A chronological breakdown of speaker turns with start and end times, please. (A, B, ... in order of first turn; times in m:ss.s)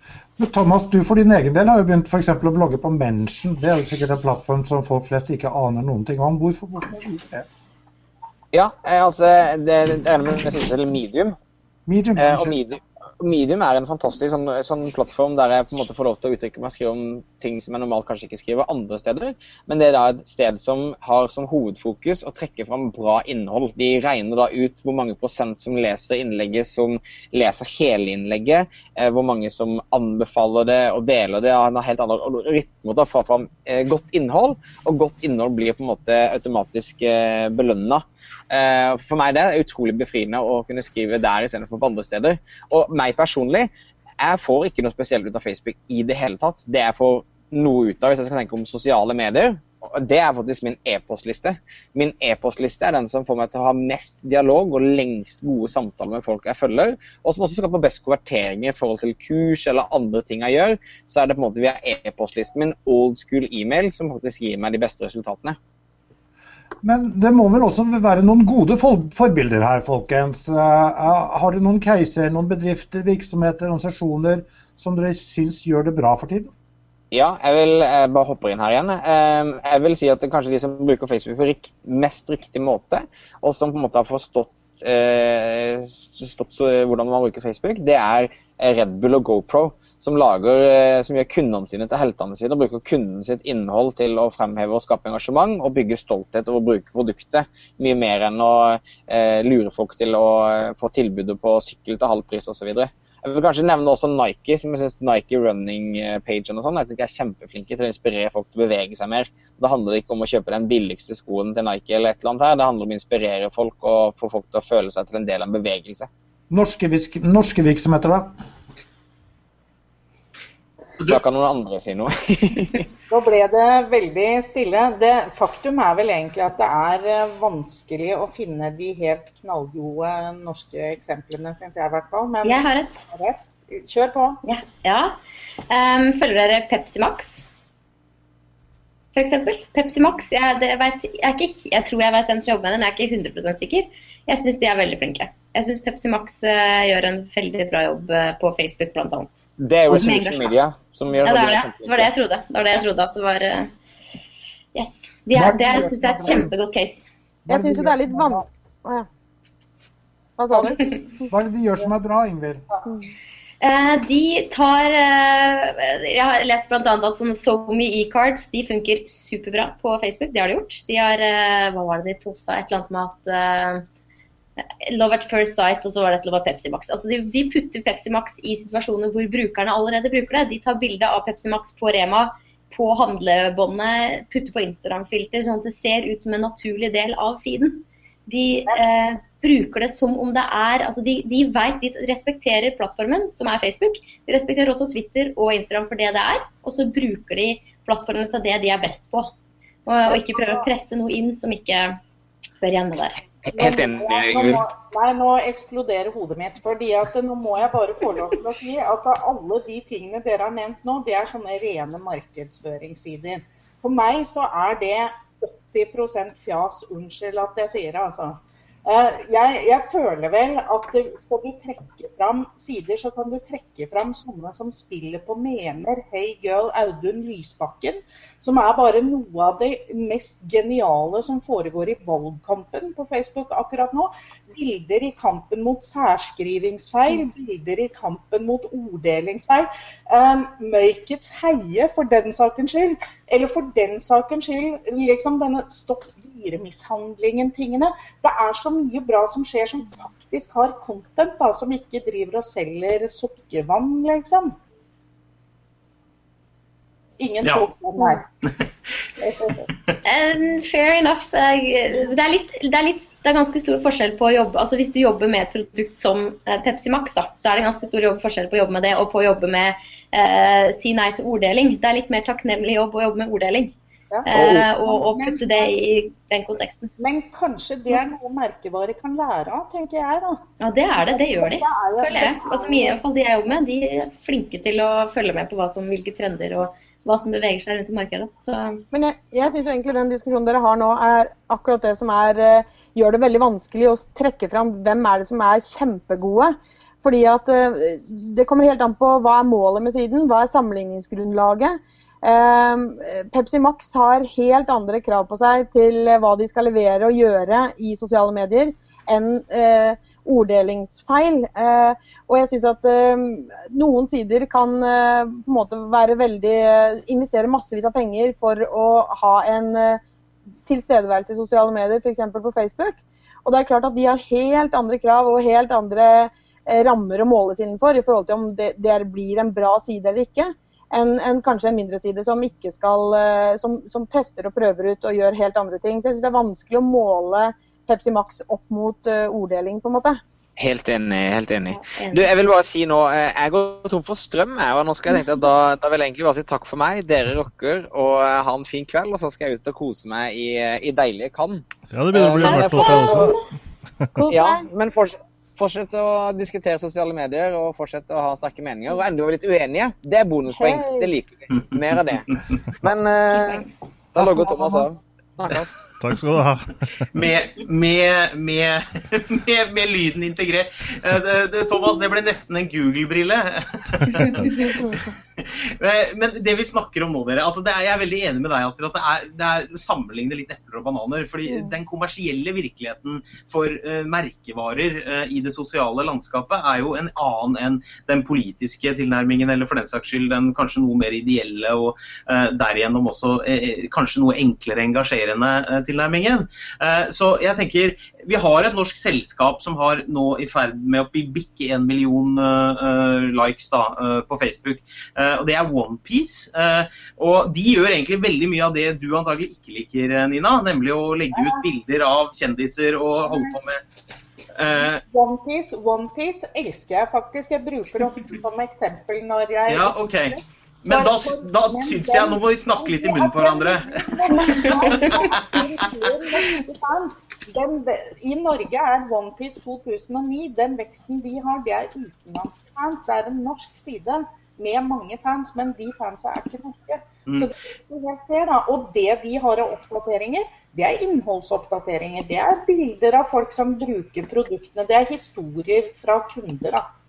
0:00.4-0:07.5 A
0:08.5-0:11.4 B
0:11.9-0:12.6 A
0:12.2-1:05.6 B
1:06.8-1:16.5 A
1:17.1-1:56.1 B
1:56.5-1:58.3 A
2:01.0-2:02.8 B
2:03.1-2:14.4 C
2:12.4-2:13.0 D
2:14.4-2:15.2 D
2:15.7-2:17.4 D
2:19.1-2:30.5 D
2:29.6-2:32.1 B
2:31.2-2:33.7 D
2:34.7-2:37.0 D
2:35.3-2:36.5 A
2:37.5-2:39.1 E
2:37.5-2:38.5 A
2:40.4-2:40.8 E
2:41.3-2:42.6 A
2:43.6-2:53.8 D
2:54.8-3:19.3 D
3:19.8-3:22.0 D
3:20.0-3:20.7 C
3:22.6-3:23.2 D
3:23.4-3:24.6 B
3:23.5-4:14.6 C
4:17.2-4:18.2 C
4:19.2-4:19.7 C
4:20.0-4:33.7 D
4:34.1-4:35.8 C
4:34.3-4:36.9 D
4:34.3-4:34.6 B
4:37.0-4:40.4 C
4:40.6-4:48.8 D
4:41.0-4:43.0 C
4:48.9-5:20.0 E
5:20.6-5:40.2 E
5:40.6-5:53.4 B
5:41.7-5:42.3 D
5:51.9-5:53.4 F
5:52.5-5:53.4 E
5:54.2-5:54.6 E
5:54.2-6:05.8 B
6:00.5-6:01.1 E
6:02.3-6:02.6 G
6:04.2-6:04.9 A
6:06.0-6:07.0 F
6:07.1-6:53.8 G
6:14.6-6:15.0 E
6:21.5-6:21.7 E
6:51.3-6:51.6 C
6:53.2-6:53.6 C
6:54.6-6:55.0 G
6:54.7-7:26.9 C
6:59.7-7:05.6 G